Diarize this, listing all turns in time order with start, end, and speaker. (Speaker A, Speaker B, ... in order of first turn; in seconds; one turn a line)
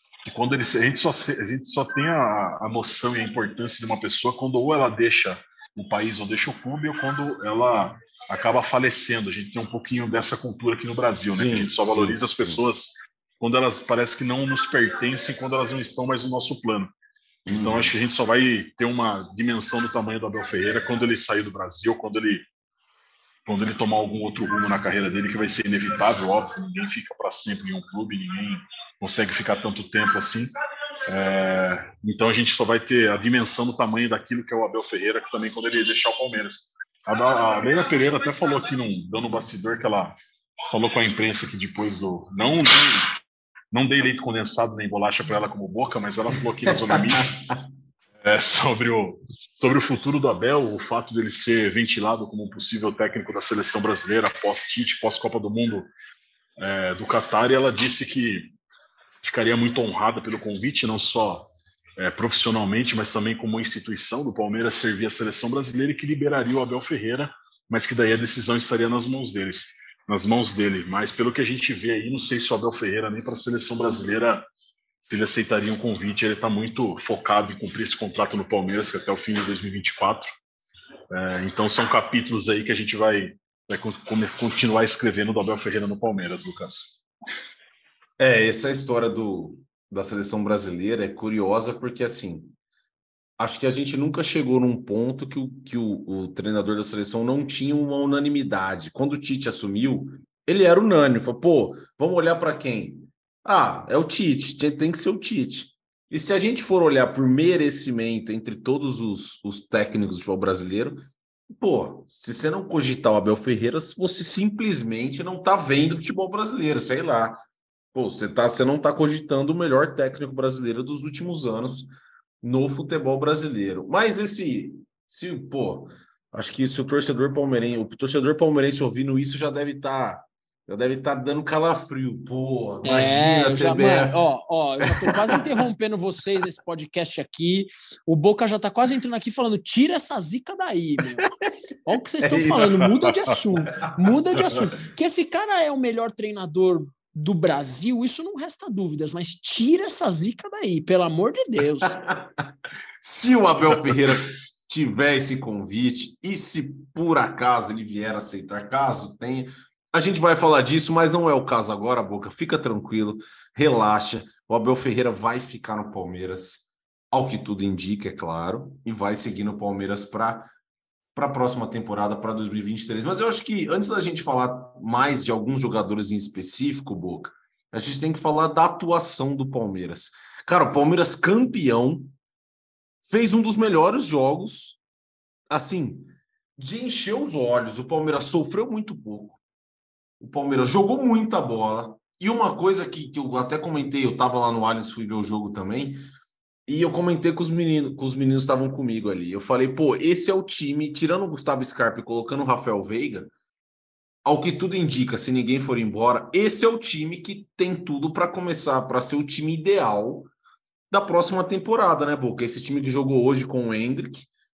Speaker A: 0.2-16.9
Speaker B: 11.3-12.6
Speaker B: 17.5-17.9
Speaker A: 17.5-22.4
Speaker A: 23.5-30.5
Speaker A: 31.1-40.2
Speaker A: 40.7-43.2
Speaker A: 43.7-47.5
Speaker B: 46.9-47.2
Speaker A: 48.2-55.9
Speaker A: 56.6-58.5
Speaker A: 59.2-74.5
Speaker A: 75.0-80.3
Speaker A: 81.1-87.0
Speaker B: 88.2-92.5
Speaker B: 93.4-121.9
Speaker B: 122.4-134.2
Speaker C: 132.8-141.3
Speaker B: 134.8-135.6
Speaker C: 141.8-152.0
Speaker B: 142.2-143.1
Speaker B: 151.9-152.5
Speaker B: 153.0-170.5
Speaker B: 171.2-182.1
Speaker B: 183.1-184.8
Speaker B: 185.5-189.4
Speaker B: 190.2-196.0
Speaker B: 196.7-203.3
Speaker B: 204.2-210.3
Speaker B: 210.9-214.3